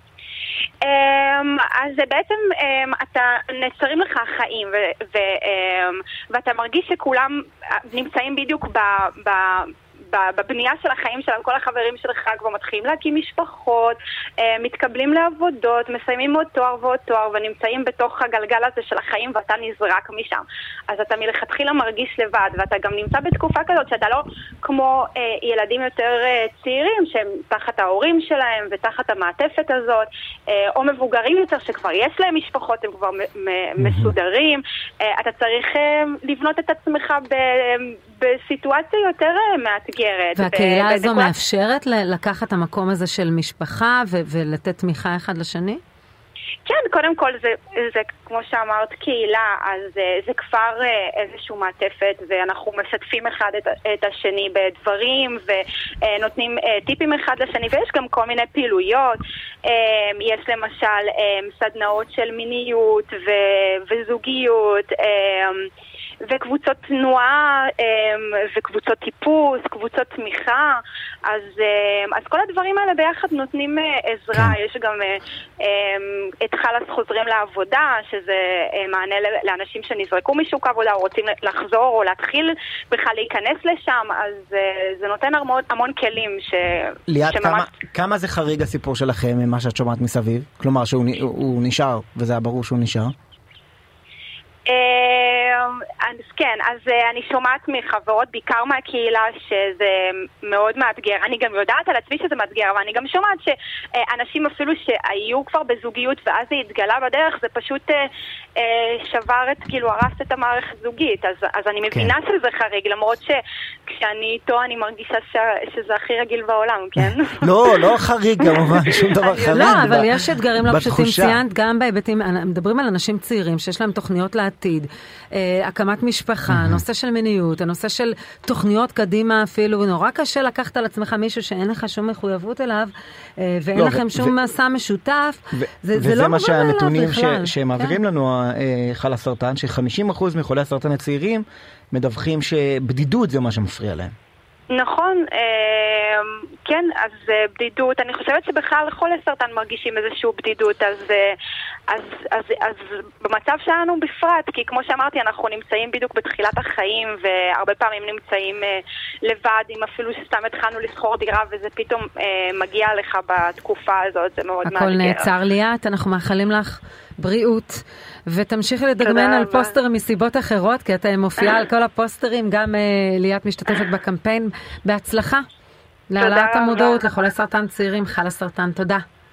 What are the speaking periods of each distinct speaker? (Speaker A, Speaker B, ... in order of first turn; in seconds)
Speaker A: 0.8-41.3, 46.6-65.7, 66.2-87.7, 94.7-108.0, 108.6-117.8, 118.4-120.0, 144.7-151.4, 151.9-165.3, 169.0-169.8, 176.2-177.1
Speaker B: 33.8-34.1, 87.1-93.1, 117.0-121.4, 126.5-126.8, 133.8-134.3, 135.5-144.1
Speaker C: 40.4-45.8, 119.5-138.0, 164.6-175.4, 176.1-179.0